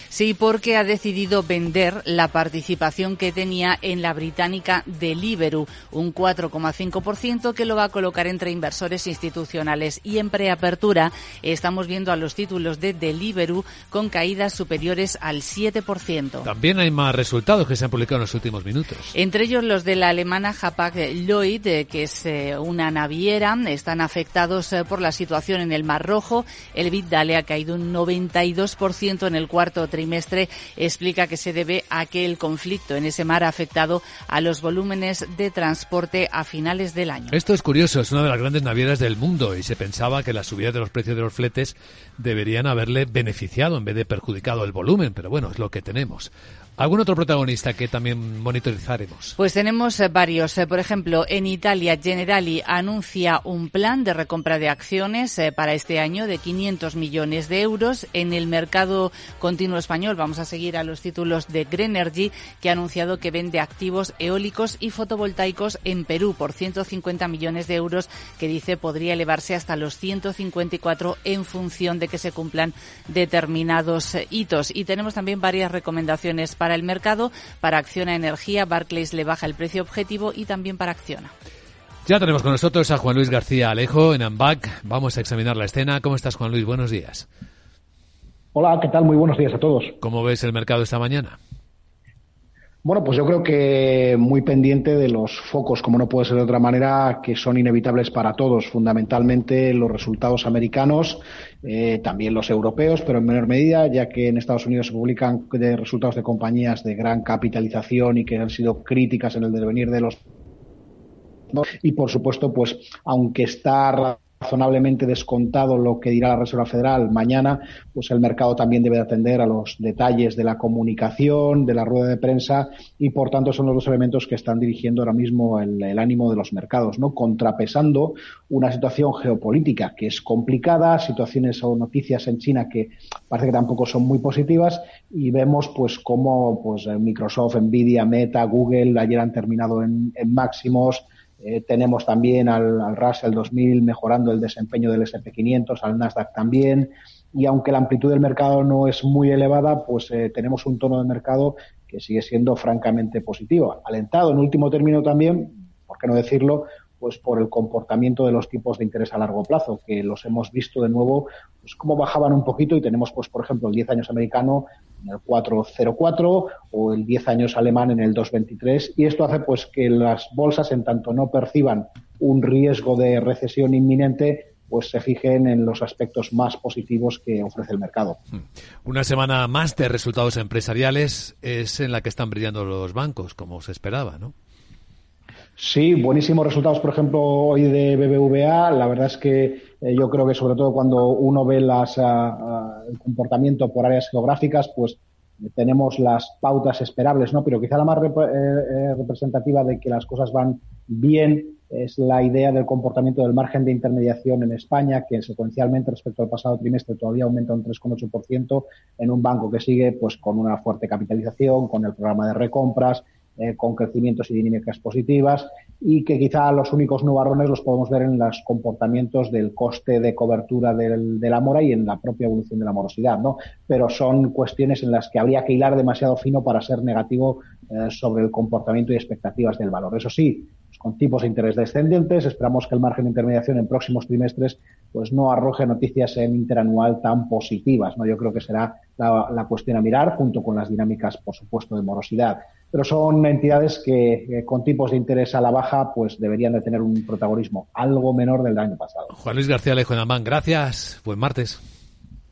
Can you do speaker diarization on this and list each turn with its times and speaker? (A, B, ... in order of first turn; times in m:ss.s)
0:00.1-0:16.5 A
0:16.4-0:19.1 B
0:19.1-0:37.4 A
0:37.3-0:49.4 B
0:49.4-1:21.3 A
1:22.0-1:27.3 B
1:28.5-1:30.0 C
1:30.0-1:31.4 B
1:32.8-1:50.2 C
1:51.5-2:58.2 C
2:58.8-3:04.3 B
3:05.6-4:09.1 C
4:09.1-4:11.6 B